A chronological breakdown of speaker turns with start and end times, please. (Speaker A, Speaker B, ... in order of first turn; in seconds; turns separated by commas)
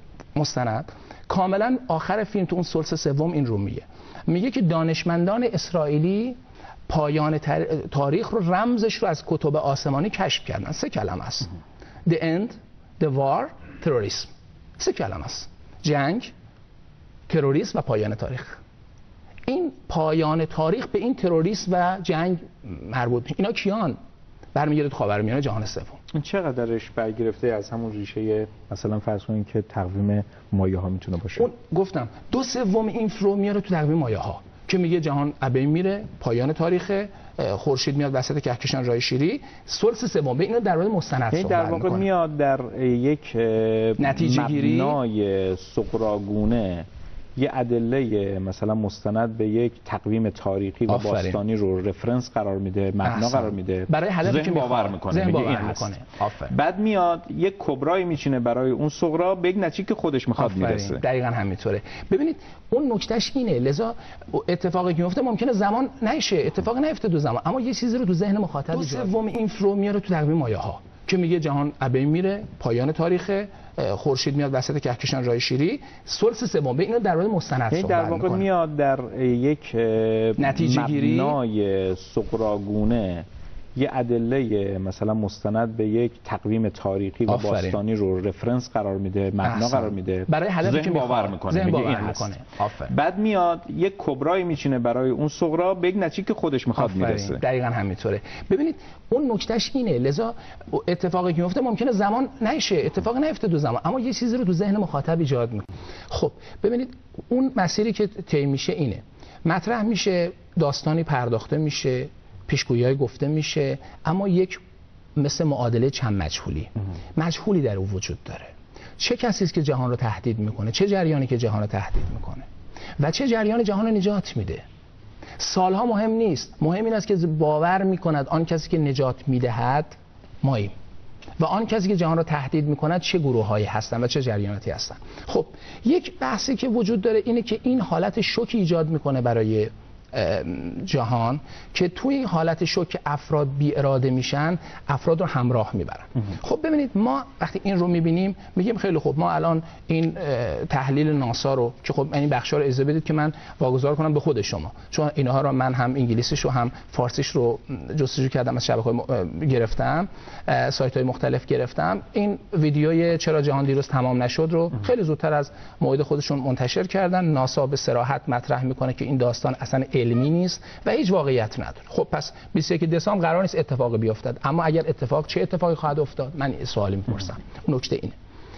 Speaker A: 0.3-11.5, Speaker A: 12.1-16.3, Speaker A: 17.3-18.6, Speaker A: 19.5-24.0, Speaker A: 24.6-26.0, Speaker B: 26.1-31.5, Speaker A: 31.4-42.1, Speaker B: 41.3-46.9, Speaker A: 44.0-45.0, Speaker B: 47.4-55.9, Speaker A: 50.9-51.4, Speaker A: 53.0-56.5, Speaker B: 56.4-61.0, Speaker A: 60.4-78.5, Speaker B: 68.8-69.1, Speaker B: 77.7-83.2, Speaker A: 80.4-81.4, Speaker B: 83.8-97.4, Speaker A: 87.3-87.8, Speaker A: 89.4-92.9, Speaker A: 96.8-114.6, Speaker A: 115.2-122.5, Speaker A: 123.0-124.6, Speaker A: 125.4-130.7, Speaker A: 131.4-178.2